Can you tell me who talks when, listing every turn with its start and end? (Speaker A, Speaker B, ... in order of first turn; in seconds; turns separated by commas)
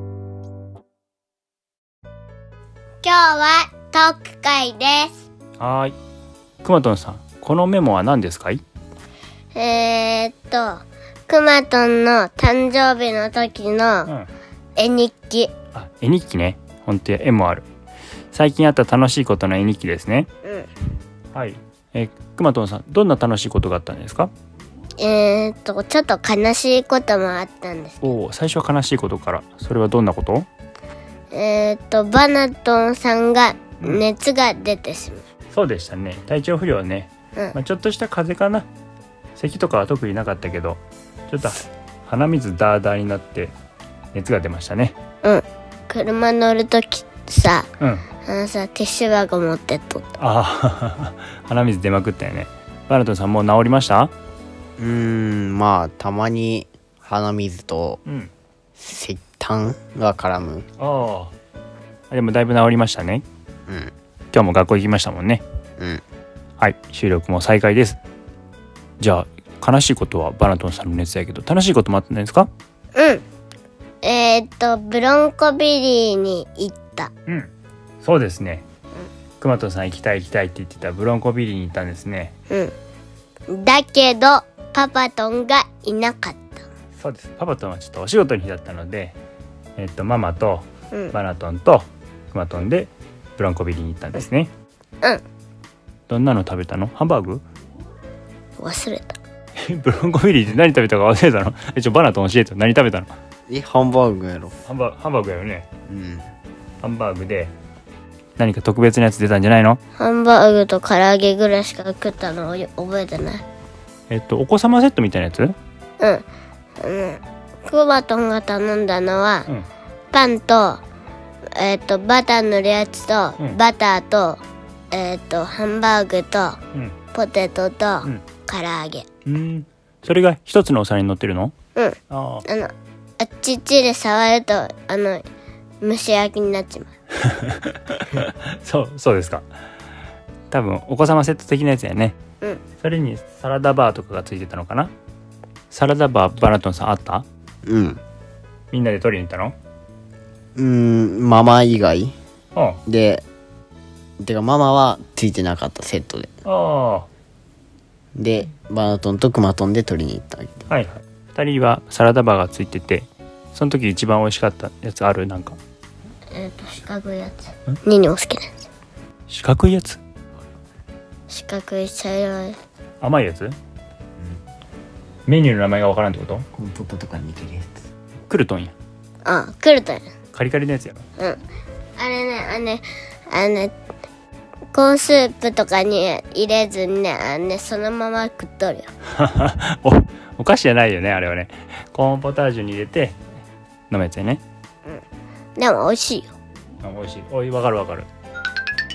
Speaker A: 3.0-5.2, Speaker B: 5.6-6.0, Speaker B: 6.6-8.6, Speaker A: 9.5-14.1, Speaker A: 14.8-15.5, Speaker B: 15.7-17.6, Speaker B: 18.3-20.3, Speaker A: 20.4-20.7, Speaker B: 21.3-24.3, Speaker A: 25.0-28.1, Speaker B: 28.0-30.5, Speaker A: 31.3-35.2, Speaker B: 35.5-38.7, Speaker B: 39.4-43.5, Speaker B: 44.1-45.0, Speaker A: 45.2-47.7, Speaker B: 47.8-48.0, Speaker A: 48.2-50.1, Speaker B: 50.2-54.1, Speaker C: 54.8-58.0, Speaker B: 58.0-58.3, Speaker C: 58.8-60.6, Speaker B: 60.8-61.3, Speaker B: 62.1-63.2, Speaker C: 63.7-63.9, Speaker B: 64.3-65.4, Speaker B: 66.6-68.0, Speaker B: 69.0-72.5, Speaker A: 72.9-73.2, Speaker A: 74.0-77.1, Speaker B: 78.0-78.6, Speaker B: 79.4-82.3, Speaker A: 83.5-86.7, Speaker B: 87.0-89.2, Speaker B: 89.8-94.5, Speaker B: 96.1-97.4, Speaker A: 98.6-99.2, Speaker B: 99.6-103.1, Speaker C: 103.5-104.5, Speaker B: 104.6-105.7, Speaker C: 105.9-106.2, Speaker B: 106.8-107.5, Speaker B: 108.4-109.8, Speaker A: 110.0-113.4, Speaker B: 114.1-115.5, Speaker A: 116.0-116.2, Speaker A: 116.8-119.5, Speaker A: 120.1-120.8, Speaker A: 121.5-126.6, Speaker A: 127.1-129.1, Speaker B: 129.2-131.5, Speaker A: 131.7-135.2, Speaker B: 132.1-132.4, Speaker A: 135.8-136.9, Speaker B: 137.2-139.4, Speaker B: 140.5-142.2, Speaker B: 142.8-144.9, Speaker B: 145.7-147.2, Speaker C: 147.6-148.0, Speaker B: 148.7-149.5, Speaker C: 150.6-152.1, Speaker B: 152.5-152.8, Speaker C: 152.8-153.2, Speaker C: 154.2-156.3, Speaker B: 156.4-157.1, Speaker C: 158.2-160.7, Speaker B: 160.7-165.6, Speaker A: 166.3-168.5, Speaker B: 169.3-170.0, Speaker A: 171.3-172.6, Speaker B: 173.0-173.6, Speaker B: 175.3-176.4, Speaker C: 176.6-177.8, Speaker B: 178.2-178.7, Speaker A: 179.2-180.0, Speaker B: 180.3-181.0, Speaker A: 182.0-183.7, Speaker A: 184.7-188.9, Speaker B: 189.1-193.2, Speaker B: 193.9-194.4, Speaker A: 195.6-196.3, Speaker B: 196.8-198.1